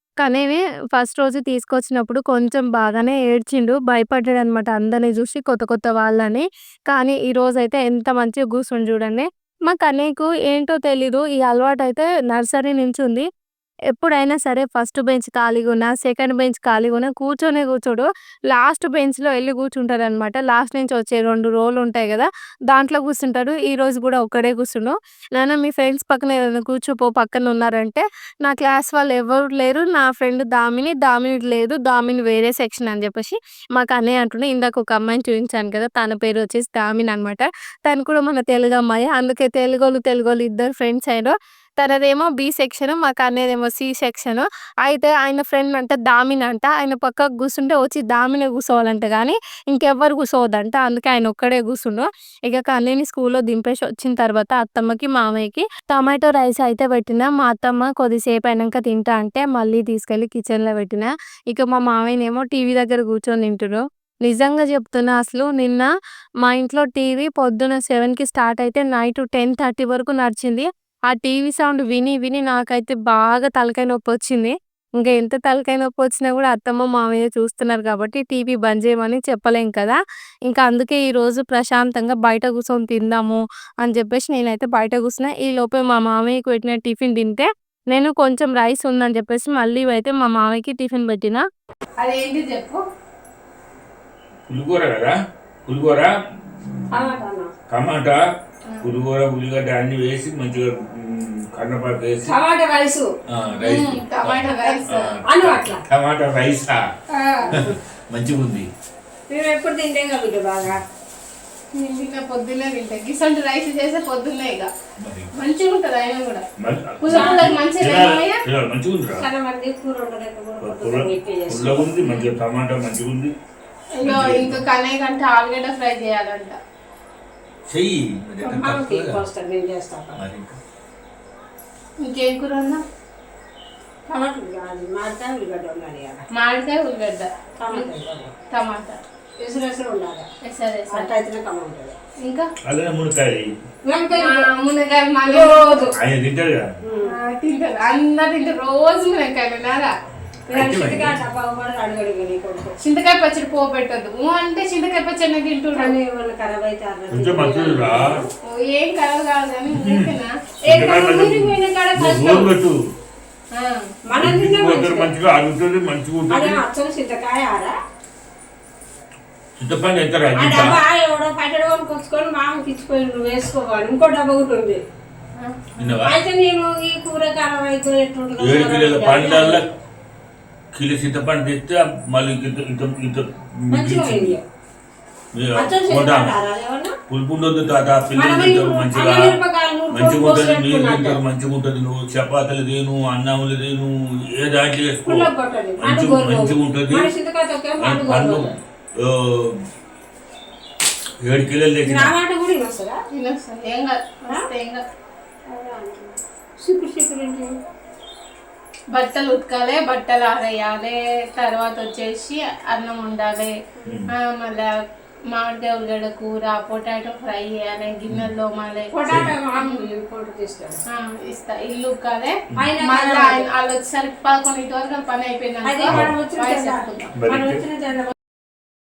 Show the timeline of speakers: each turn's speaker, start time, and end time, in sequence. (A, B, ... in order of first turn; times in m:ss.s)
0:00.2-0:13.3 A
0:13.9-1:05.9 A
1:06.4-1:31.4 A
1:32.0-1:32.8 A
1:34.5-1:35.1 B
1:35.7-1:37.2 B
1:36.9-1:37.5 C
1:37.7-1:38.2 B
1:38.8-1:42.4 B
1:42.3-1:43.1 C
1:43.3-1:46.8 B
1:43.6-1:45.1 A
1:45.3-1:45.8 C
1:47.4-1:47.8 C
1:47.5-1:48.7 B
1:49.3-1:50.8 C
1:51.8-1:54.7 A
1:55.0-1:55.3 B
1:55.4-1:56.4 A
1:56.6-1:59.2 B
1:57.0-1:58.3 A
1:57.1-1:57.6 C
1:59.2-2:01.9 C
2:00.6-2:03.3 B
2:04.0-2:06.6 A
2:04.0-2:04.6 B
2:07.7-2:09.2 B
2:08.4-2:10.2 C
2:10.2-2:10.6 B
2:12.0-2:12.8 A
2:14.1-2:16.2 C
2:16.4-2:17.9 A
2:17.6-2:18.3 C
2:18.5-2:19.0 A
2:19.4-2:20.3 C
2:20.5-2:21.1 A
2:20.9-2:22.0 C
2:22.7-2:23.5 B
2:23.9-2:24.5 C
2:24.2-2:25.8 A
2:25.3-2:26.0 C
2:26.0-2:26.7 B
2:26.8-2:27.2 C
2:27.2-2:29.9 A
2:30.5-2:32.7 C
2:30.5-2:31.2 B
2:32.9-2:35.9 A
2:35.7-2:38.3 C
2:37.1-2:38.2 B
2:38.5-2:40.2 A
2:39.7-2:40.2 B
2:40.6-2:42.5 C
2:40.7-2:42.8 B
2:44.1-2:45.1 C
2:44.2-2:46.6 B
2:46.3-2:47.8 C
2:49.6-2:50.8 B
2:50.4-2:54.8 C
2:55.4-2:55.7 A
2:55.8-2:56.2 B
2:56.0-2:59.8 C
2:58.4-2:59.7 B
3:00.7-3:04.4 B
3:03.7-3:04.4 C
3:05.3-3:06.4 B
3:05.6-3:07.0 C
3:07.1-3:09.4 B
3:08.1-3:11.2 C
3:09.9-3:17.1 B
3:15.0-3:18.6 C
3:17.8-3:19.6 B
3:21.2-3:22.2 B
3:21.9-3:23.0 C
3:23.2-3:24.8 A
3:25.5-3:27.6 C
3:29.0-3:33.5 A
3:34.2-3:34.7 A
3:35.3-3:38.9 A
3:38.9-3:40.8 C
3:39.1-3:39.3 B
3:40.9-3:47.0 A
3:42.6-3:43.5 C
3:45.6-3:48.1 C
3:45.9-3:46.2 B
3:47.2-3:47.6 B